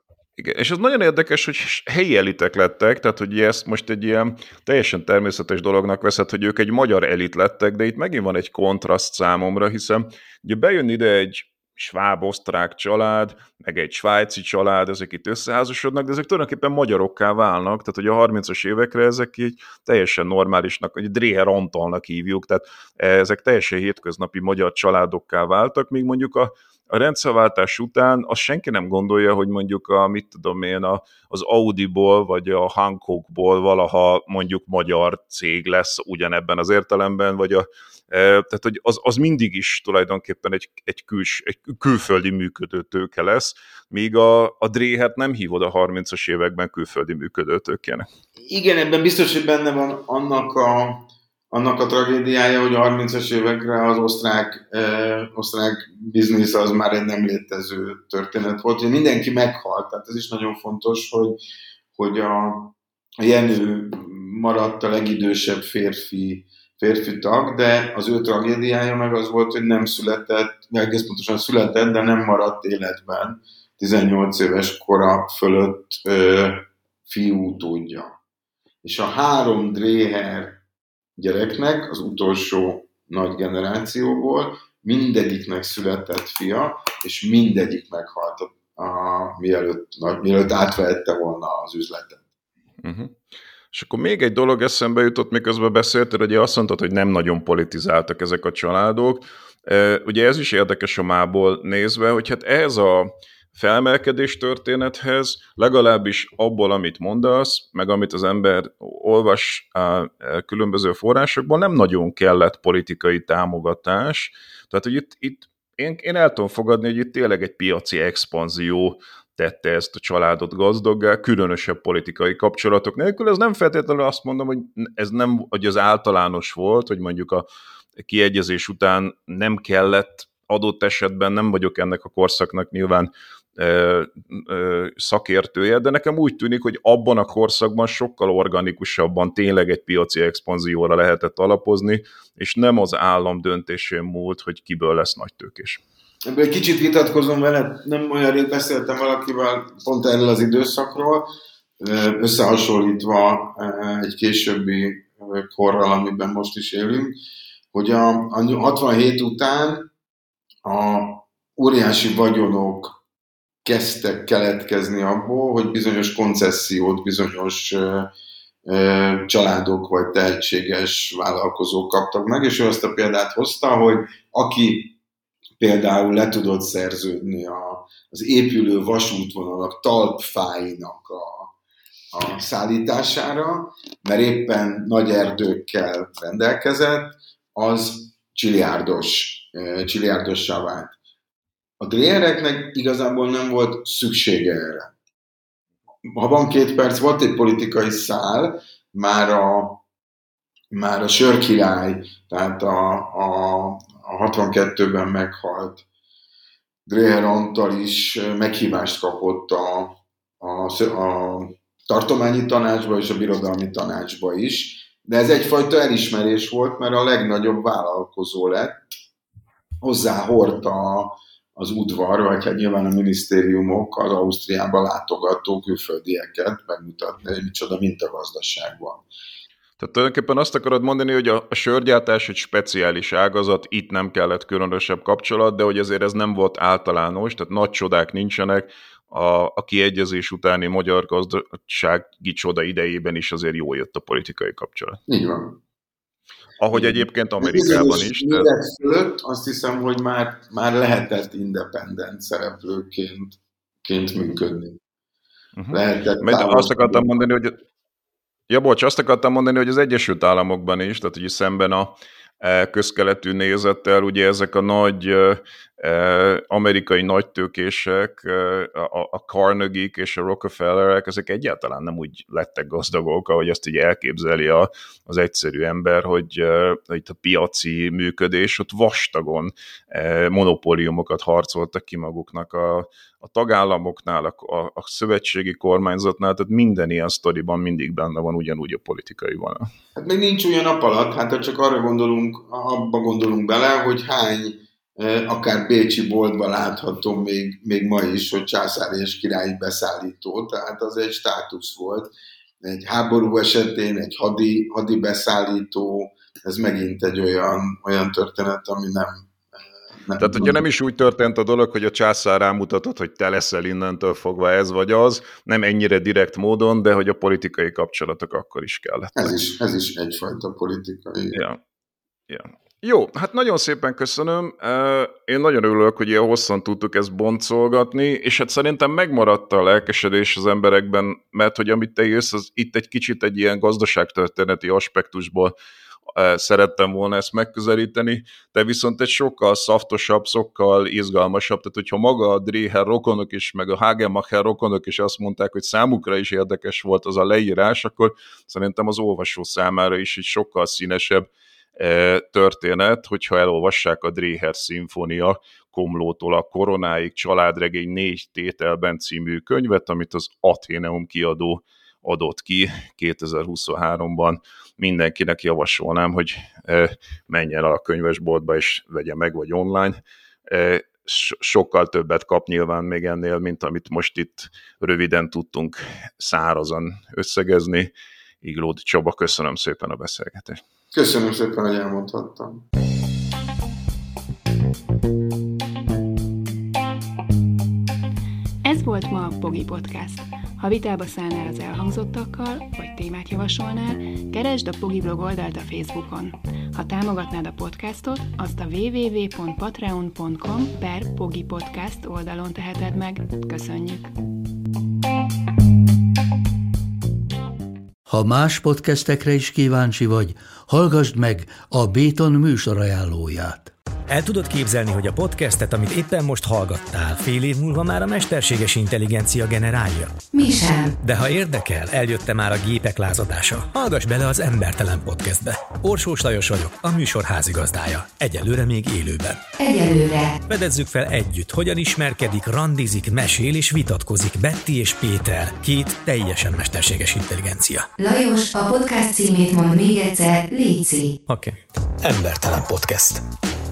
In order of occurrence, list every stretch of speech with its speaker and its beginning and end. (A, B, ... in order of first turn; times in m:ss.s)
0:00.4-0:48.1 A
0:48.4-1:01.4 B
1:02.0-1:18.2 B
1:18.8-1:20.6 B
1:21.2-1:32.2 B
1:32.8-1:33.2 A
1:33.7-2:07.4 A
2:08.0-2:25.8 A
2:26.3-2:31.3 B
2:31.8-2:37.2 B
2:37.7-2:39.9 B
2:40.6-2:43.0 B
2:43.6-2:48.1 B
2:48.7-2:54.9 B
2:55.6-3:01.5 B
3:02.1-3:11.0 B
3:11.8-3:14.9 B
3:16.1-3:19.8 B
3:20.7-3:25.8 B
3:26.9-3:39.0 B
3:39.8-3:49.1 B
3:49.8-4:05.0 A
4:05.1-4:05.6 B
4:06.6-4:08.5 A
4:06.7-4:14.8 B
4:15.6-4:17.6 A
4:15.7-4:17.2 B
4:18.5-4:49.7 A
4:50.0-5:02.1 B
5:02.6-5:10.6 B
5:10.2-5:19.3 A
5:19.2-5:21.4 B
5:21.3-5:21.6 A
5:22.3-5:35.6 A
5:36.1-6:17.9 A
6:18.4-6:20.6 A
6:20.9-6:22.6 B
6:28.6-6:44.1 C
6:48.1-6:53.7 D
6:54.1-7:00.2 E
7:00.3-7:00.9 F
7:01.0-7:09.5 E
7:09.6-7:10.4 F
7:10.5-7:17.9 E
7:18.0-7:21.1 F
7:21.3-7:23.2 E